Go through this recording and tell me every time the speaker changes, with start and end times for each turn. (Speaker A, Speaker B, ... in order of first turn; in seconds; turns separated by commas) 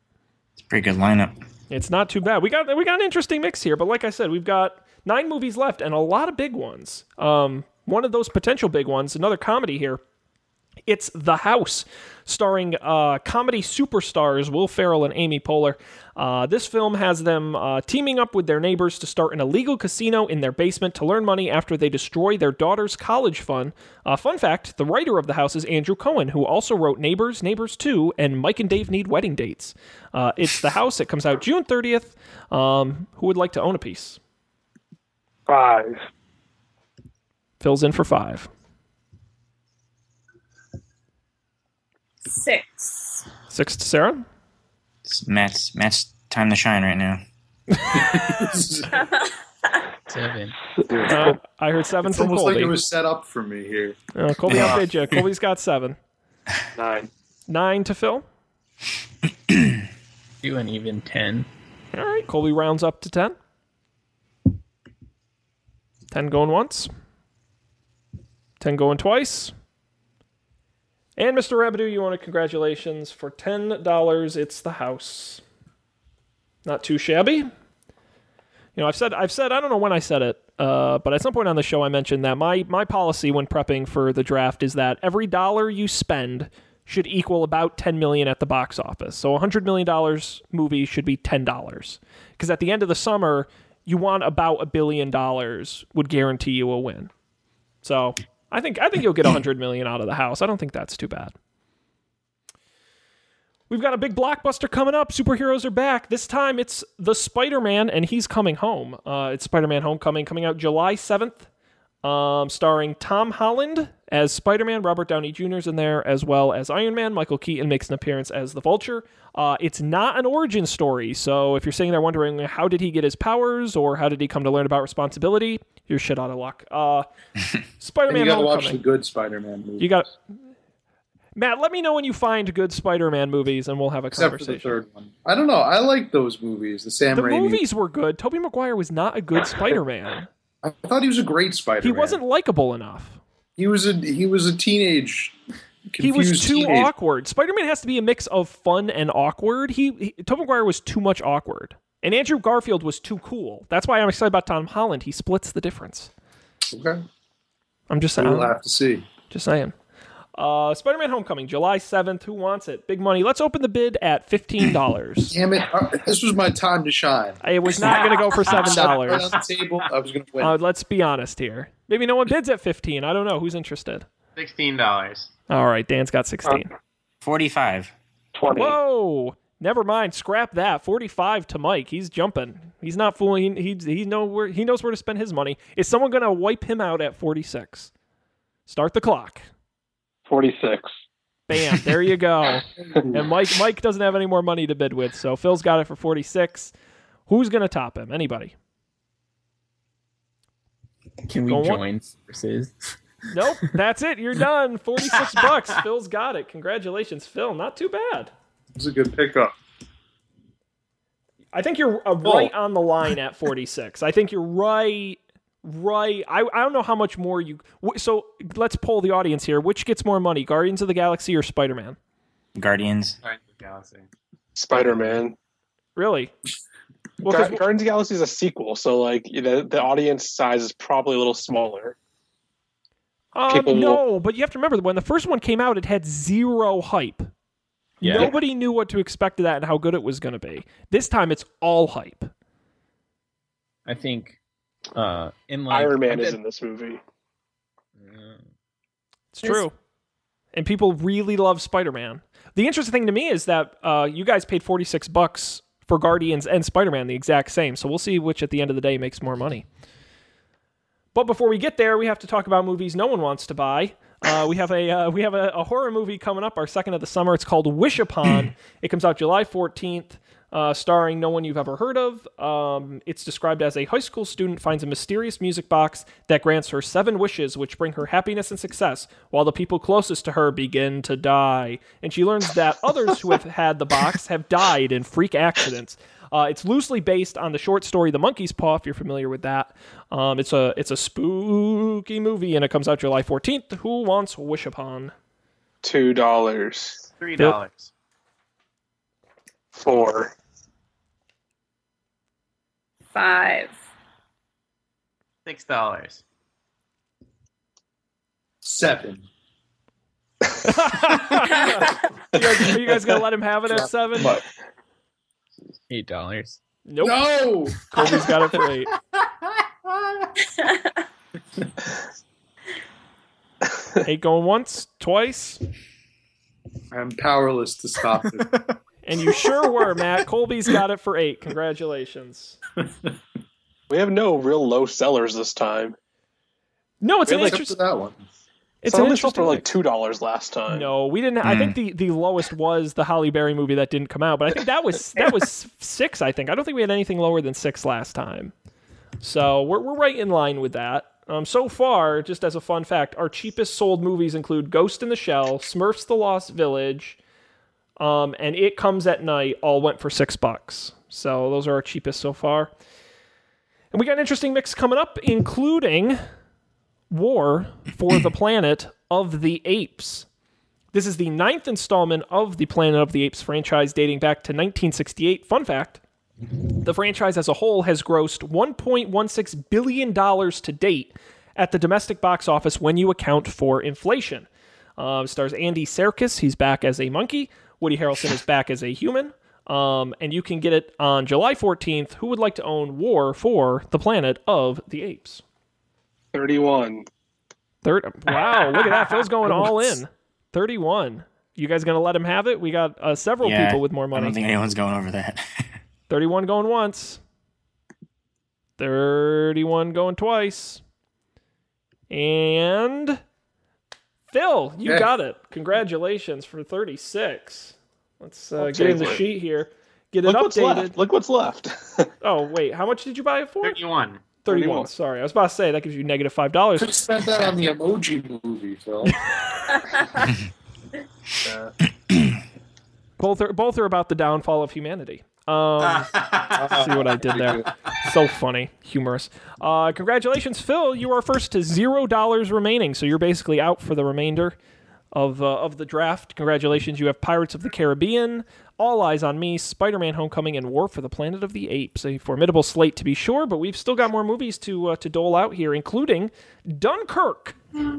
Speaker A: 0.6-1.4, Speaker B: 1.7-10.0, Speaker B: 10.9-34.2, Speaker C: 35.5-36.1, Speaker B: 37.6-38.5, Speaker D: 42.3-43.2, Speaker B: 43.5-44.2, Speaker A: 45.0-47.2, Speaker E: 47.9-49.0, Speaker D: 48.9-49.3, Speaker F: 50.1-50.6, Speaker E: 50.9-51.2, Speaker B: 51.1-52.8, Speaker E: 52.0-54.0, Speaker B: 54.1-56.0, Speaker A: 54.5-54.8, Speaker C: 56.8-57.1, Speaker B: 57.5-58.2, Speaker F: 60.4-61.5, Speaker B: 61.9-63.4, Speaker B: 66.1-66.9, Speaker B: 68.6-69.5, Speaker B: 71.2-75.4, Speaker B: 76.7-77.5, Speaker B: 78.8-97.1, Speaker B: 97.8-101.3, Speaker B: 103.7-111.5, Speaker B: 112.0-127.1, Speaker B: 127.8-128.8, Speaker E: 128.1-130.0, Speaker B: 129.8-130.1, Speaker B: 131.4-134.8, Speaker E: 134.1-137.6, Speaker B: 137.1-140.3, Speaker E: 140.6-142.2, Speaker B: 141.8-143.2, Speaker E: 143.6-145.4, Speaker E: 145.9-146.9, Speaker B: 146.0-156.1, Speaker E: 156.7-157.0, Speaker B: 157.9-158.6, Speaker E: 158.2-159.1, Speaker B: 159.3-159.7, Speaker B: 160.4-165.4, Speaker E: 165.3-167.4, Speaker B: 167.4-169.3, Speaker E: 168.5-170.6, Speaker B: 170.4-174.1, Speaker G: 174.4-175.3, Speaker B: 175.5-176.7, Speaker A: 177.2-177.9, Speaker C: 178.3-178.8, Speaker B: 178.5-187.9, Speaker B: 188.7-189.4, Speaker C: 190.3-190.9, Speaker B: 191.5-196.7, Speaker B: 197.3-198.5, Speaker F: 201.3-202.9, Speaker B: 201.5-201.8, Speaker B: 203.3-208.3, Speaker E: 208.8-209.5, Speaker B: 211.5-222.0, Speaker E: 212.2-212.5, Speaker A: 222.6-223.2, Speaker G: 223.2-224.1, Speaker C: 224.6-225.3, Speaker B: 226.0-226.3, Speaker B: 227.2-227.6, Speaker C: 227.3-232.0, Speaker B: 233.3-237.3, Speaker C: 233.5-234.0, Speaker F: 238.0-238.3, Speaker B: 238.0-242.3, Speaker F: 243.9-244.4, Speaker F: 244.9-246.4, Speaker C: 245.7-247.0, Speaker F: 248.0-248.5, Speaker B: 249.3-249.7, Speaker B: 250.5-259.7, Speaker B: 261.1-295.1, Speaker C: 295.8-297.1, Speaker G: 297.2-297.9, Speaker C: 299.7-300.3, Speaker D: 303.1-303.7, Speaker G: 305.4-306.2, Speaker E: 308.6-309.3, Speaker B: 310.6-314.4, Speaker E: 314.2-314.4, Speaker F: 315.9-316.6, Speaker B: 316.9-317.2, Speaker E: 317.0-317.9, Speaker B: 317.9-318.9, Speaker B: 324.0-325.6, Speaker E: 326.9-328.7, Speaker B: 329.1-332.6, Speaker C: 333.9-336.0, Speaker B: 337.0-337.8, Speaker E: 337.3-338.2, Speaker B: 338.8-339.7, Speaker C: 338.9-340.9, Speaker B: 340.7-348.5, Speaker A: 341.4-341.8, Speaker B: 349.2-357.2, Speaker B: 358.0-362.7, Speaker B: 363.9-366.2, Speaker B: 367.1-370.3, Speaker B: 370.9-376.0, Speaker B: 376.7-395.4, Speaker C: 396.3-397.1, Speaker B: 397.8-404.4, Speaker C: 398.6-400.0, Speaker A: 403.4-405.6, Speaker B: 406.1-407.2, Speaker B: 408.8-410.8, Speaker B: 412.1-413.2, Speaker B: 414.3-421.0, Speaker C: 418.6-419.2, Speaker C: 420.2-422.1, Speaker B: 422.2-423.8, Speaker G: 423.6-424.3, Speaker B: 424.4-427.0, Speaker C: 424.5-424.9, Speaker E: 426.8-429.3, Speaker C: 431.4-431.7, Speaker B: 433.2-436.1, Speaker G: 435.8-436.6, Speaker E: 436.5-437.7, Speaker B: 436.7-444.6, Speaker B: 445.1-457.6